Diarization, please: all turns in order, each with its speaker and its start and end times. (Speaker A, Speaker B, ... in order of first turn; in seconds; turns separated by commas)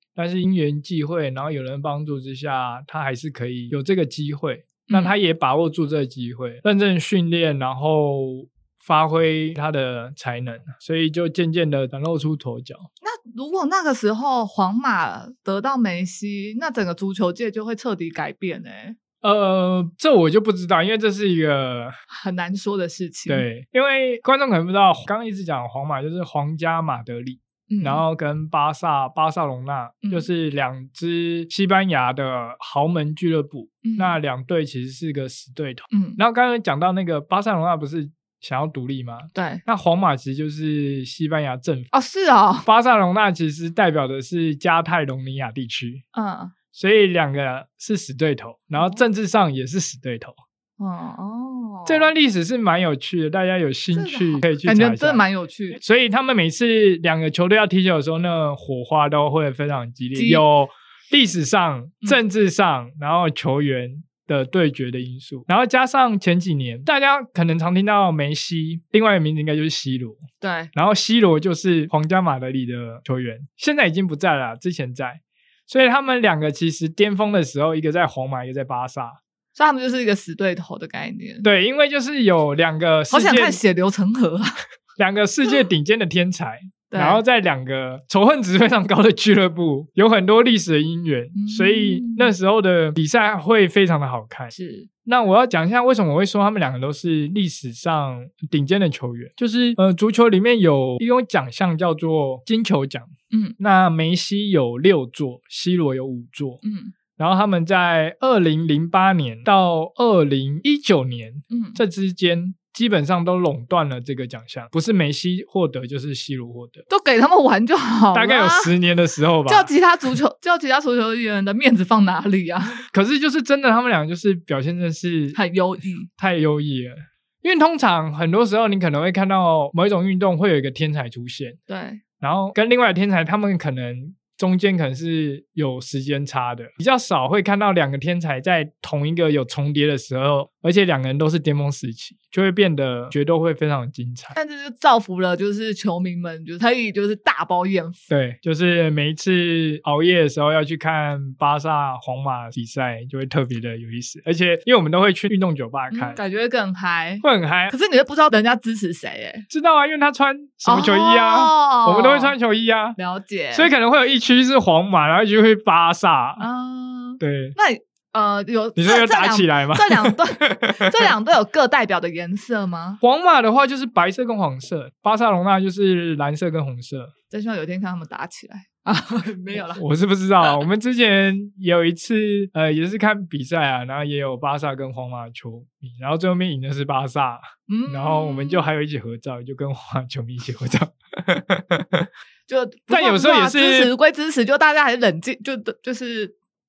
Speaker A: 0.2-12.9, Speaker B: 4.9-5.1, Speaker B: 13.0-19.0, Speaker A: 19.2-21.9, Speaker B: 22.1-23.5, Speaker A: 23.3-41.9, Speaker B: 27.7-28.0, Speaker B: 30.0-30.3, Speaker B: 33.8-34.2, Speaker B: 35.9-36.2, Speaker B: 39.3-39.6, Speaker B: 41.9-42.7, Speaker A: 42.6-46.0, Speaker B: 46.1-46.5, Speaker A: 46.7-50.4, Speaker B: 48.8-49.0, Speaker B: 50.8-52.1, Speaker A: 51.9-79.2, Speaker B: 53.9-55.8, Speaker B: 60.1-60.4, Speaker B: 70.4-70.7, Speaker B: 79.6-81.5, Speaker A: 81.4-83.6, Speaker B: 83.1-84.6, Speaker A: 85.0-94.5, Speaker B: 86.9-87.2, Speaker B: 91.3-92.3, Speaker B: 94.5-94.9, Speaker A: 95.1-106.6, Speaker B: 103.3-103.6, Speaker B: 106.6-106.9, Speaker A: 107.2-116.8, Speaker B: 111.5-111.8, Speaker B: 116.9-118.7, Speaker A: 118.1-119.7, Speaker B: 119.5-122.8, Speaker A: 122.8-125.4, Speaker B: 125.3-126.1, Speaker A: 126.2-131.6, Speaker B: 131.7-132.0, Speaker A: 132.2-144.4, Speaker B: 144.4-148.0, Speaker A: 148.1-156.2, Speaker B: 155.9-159.5, Speaker A: 157.2-157.7, Speaker A: 159.5-163.0, Speaker B: 160.7-162.3, Speaker B: 163.0-163.7, Speaker A: 163.5-166.4, Speaker B: 166.4-173.0, Speaker A: 167.2-167.6, Speaker A: 168.8-171.1, Speaker A: 173.0-177.1, Speaker B: 177.3-179.8, Speaker A: 179.8-192.1, Speaker B: 187.7-188.6, Speaker B: 192.5-196.3, Speaker A: 192.9-193.9